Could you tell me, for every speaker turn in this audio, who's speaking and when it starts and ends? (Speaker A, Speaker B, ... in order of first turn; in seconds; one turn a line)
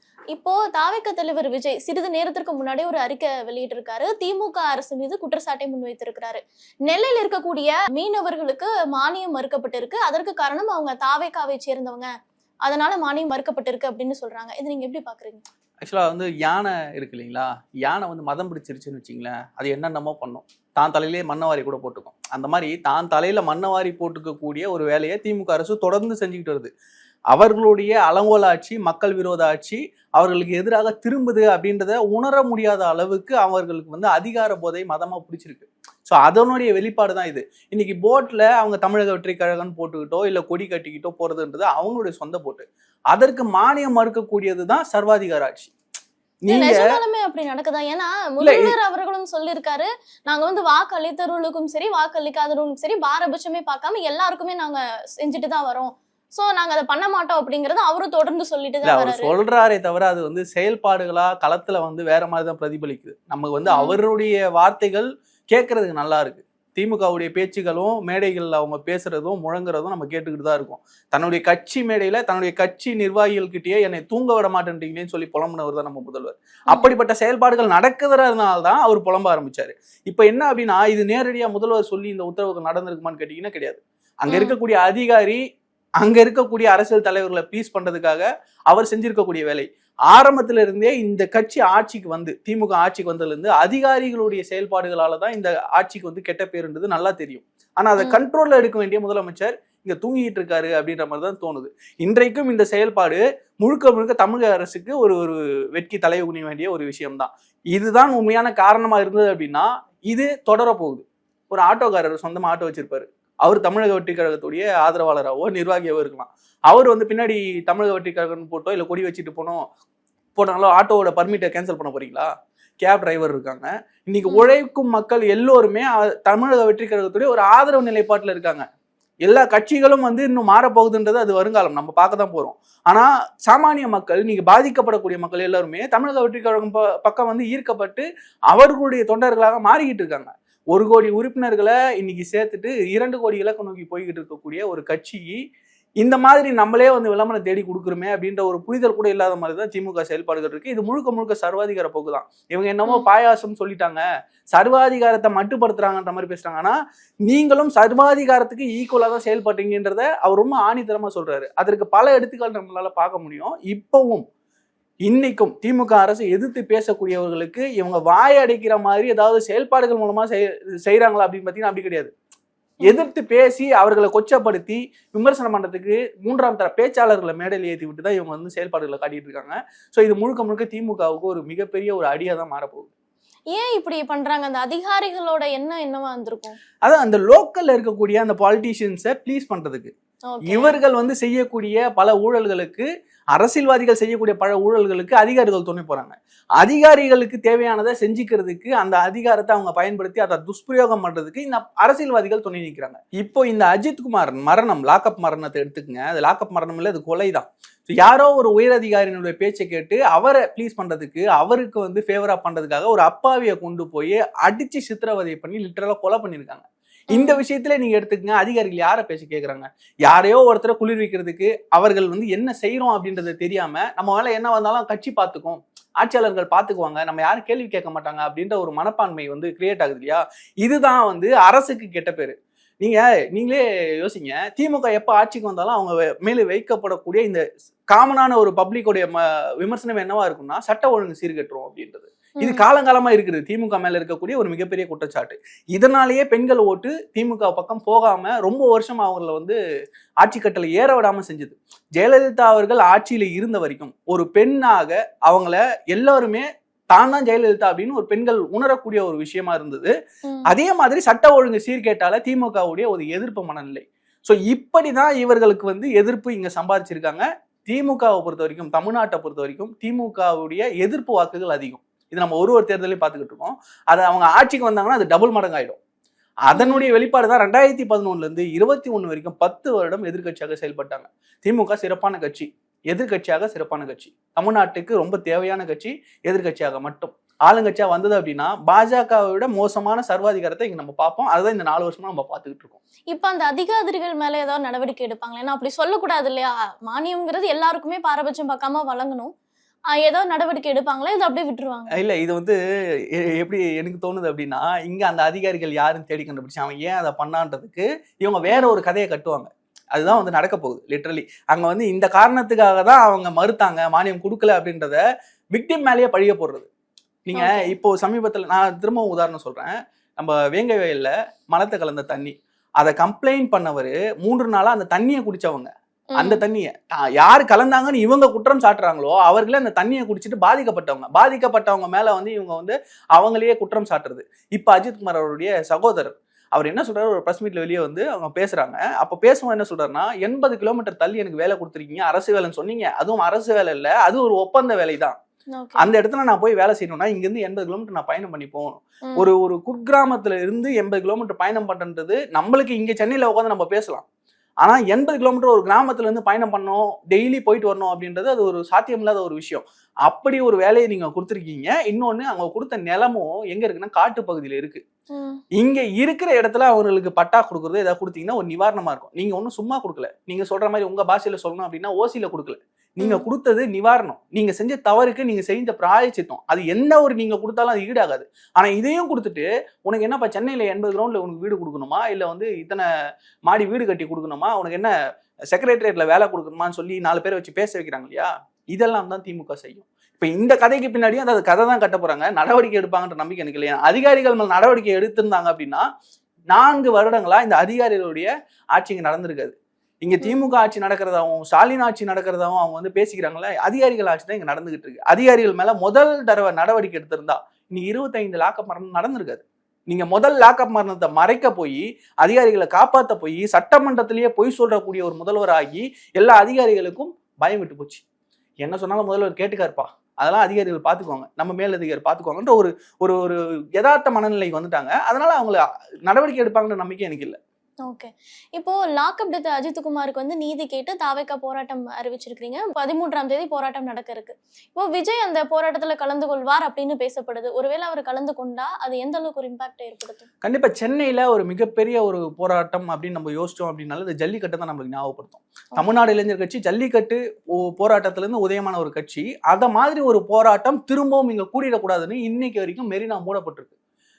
Speaker A: 0.3-12.1
Speaker A: 12.7-15.4
Speaker B: 15.8-26.7
Speaker B: 27.3-45.7
Speaker B: 46.4-46.9
Speaker A: 46.5-59.3
Speaker B: 48.4-48.7
Speaker B: 58.8-85.4
Speaker A: 63.7-64.0
Speaker A: 84.3-84.5
Speaker B: 86.0-119.7
Speaker B: 120.4-122.3
Speaker B: 122.8-128.6
Speaker A: 124.3-124.5
Speaker B: 129.2-145.4
Speaker B: 146.0-154.0
Speaker B: 154.5-156.8
Speaker B: 157.3-164.2
Speaker B: 165.1-172.1
Speaker B: 172.8-182.9
Speaker A: 183.5-186.6
Speaker B: 186.8-189.9
Speaker A: 190.3-190.8
Speaker B: 190.5-249.6
Speaker A: 217.1-217.4
Speaker B: 250.2-259.9
Speaker B: 260.5-275.8
Speaker B: 276.5-292.8
Speaker A: 276.5-276.9
Speaker A: 293.1-299.3
Speaker A: 299.9-301.9
Speaker B: 301.9-302.6
Speaker B: 303.2-315.0
Speaker A: 308.5-308.8
Speaker A: 310.1-310.3
Speaker B: 315.5-316.7
Speaker B: 317.3-345.2
Speaker A: 317.4-317.7
Speaker A: 326.1-326.4
Speaker A: 345.5-345.9
Speaker B: 345.8-354.0
Speaker B: 354.6-364.8
Speaker A: 365.1-365.4
Speaker B: 365.6-382.9
Speaker A: 373.0-373.3
Speaker B: 383.5-384.9
Speaker B: 385.5-395.9
Speaker B: 396.5-418.0
Speaker A: 400.2-400.5
Speaker B: 418.6-427.4
Speaker A: 427.9-440.3
Speaker B: 440.4-453.7